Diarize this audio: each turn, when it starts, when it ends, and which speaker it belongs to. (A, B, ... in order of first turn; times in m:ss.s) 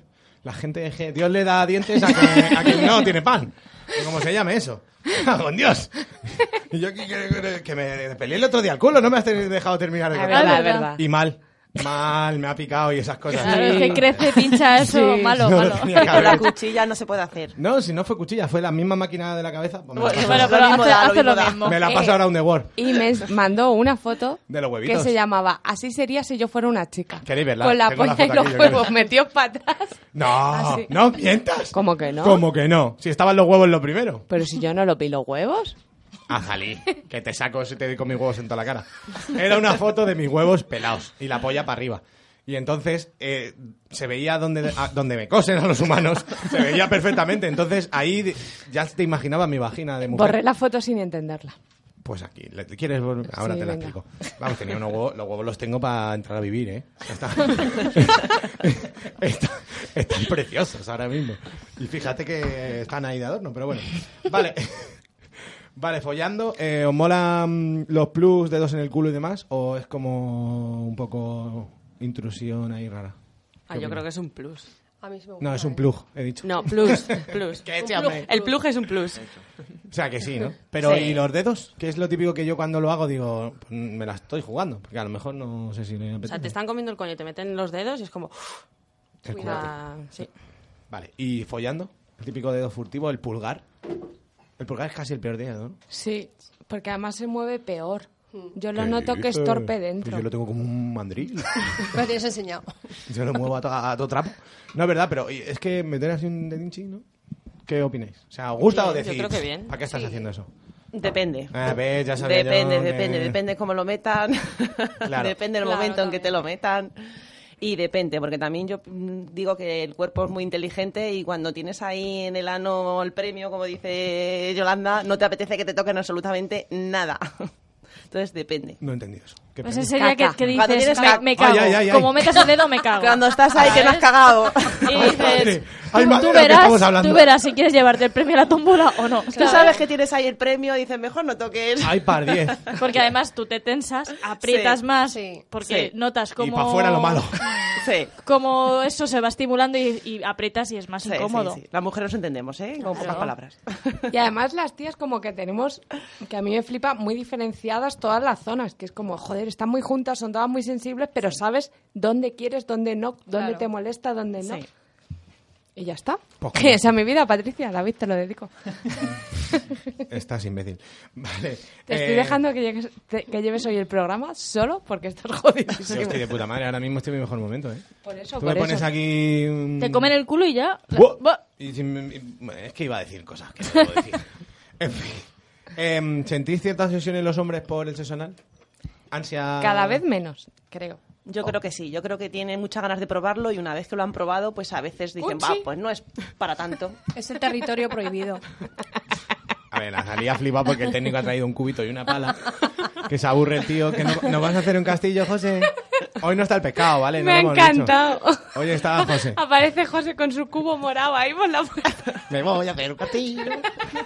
0:00.4-0:14.3 A
0:10.1-0:11.0 B
0:10.3-0:10.9 C
0:13.4-0:16.5 C
0:13.4-0:15.4 B
0:15.4-0:16.5 A
0:16.0-0:17.6 D
0:17.6-0:20.8 A
0:20.0-0:21.8 D
0:20.1-0:21.8 C
0:21.6-0:23.0 A
0:21.9-0:22.2 B
0:22.7-0:30.9 B
0:24.5-0:25.1 A
0:27.2-0:29.0 A
0:30.1-0:34.2 A
0:31.7-0:32.5 B
0:34.3-0:35.8 B
0:36.3-0:50.4 A
0:50.1-0:51.5 B
0:52.0-1:05.0 A
0:53.3-0:54.0 B
1:05.8-1:13.2 A
1:13.7-1:14.7 E
1:13.7-1:14.0 A
1:15.0-1:15.9 F
1:15.4-1:18.3 A
1:16.4-1:19.2 E
1:17.8-1:18.6 F
1:19.9-1:26.5 A
1:20.8-1:21.2 E
1:26.3-1:28.6 E
1:29.2-1:29.7 A
1:29.3-1:30.3 E
1:29.3-1:29.6 F
1:30.9-1:33.6 A
1:34.6-1:35.8 A
1:35.9-1:40.2 B
1:38.7-1:42.0 A
1:41.8-1:42.7 F
1:43.1-1:47.0 A
1:47.6-1:50.5 A
1:48.6-1:49.9 E
1:50.9-1:56.9 D
1:51.5-1:53.4 A
1:55.0-1:55.4 A
1:55.6-1:56.3 E
1:57.6-2:07.5 D
2:08.1-2:08.8 D
2:08.8-2:10.6 A
2:09.6-2:14.1 C
2:10.0-2:10.4 B
2:10.5-2:11.8 D
2:10.9-2:11.1 F
2:11.3-2:12.4 A
2:12.3-2:15.4 D
2:14.9-2:19.7 C
2:14.9-2:17.3 A
2:19.3-2:19.8 F
2:19.3-2:22.8 D
2:21.8-2:22.6 A
2:22.8-2:31.6 C
2:24.4-2:24.8 D
2:25.1-2:25.4 F
2:25.6-2:25.9 D
2:26.4-2:27.4 A
2:27.7-2:28.1 D
2:31.0-2:34.1 D
2:32.9-2:33.3 C
2:34.1-2:44.6 B
2:43.3-2:43.6 F
2:45.8-2:48.5 B
2:46.4-2:46.8 A
2:50.1-2:52.4 A
2:51.9-2:56.3 B
2:55.8-2:57.8 A
2:58.0-2:58.9 B
2:58.4-3:00.1 A
2:59.8-3:01.4 C
3:00.9-3:08.4 A
3:09.1-3:10.0 A
3:09.6-3:11.0 B
3:11.2-3:17.0 D
3:15.2-3:15.6 B
3:17.1-3:18.4 F
3:19.7-3:29.4 A
3:27.2-3:32.2 B
3:32.3-3:33.7 A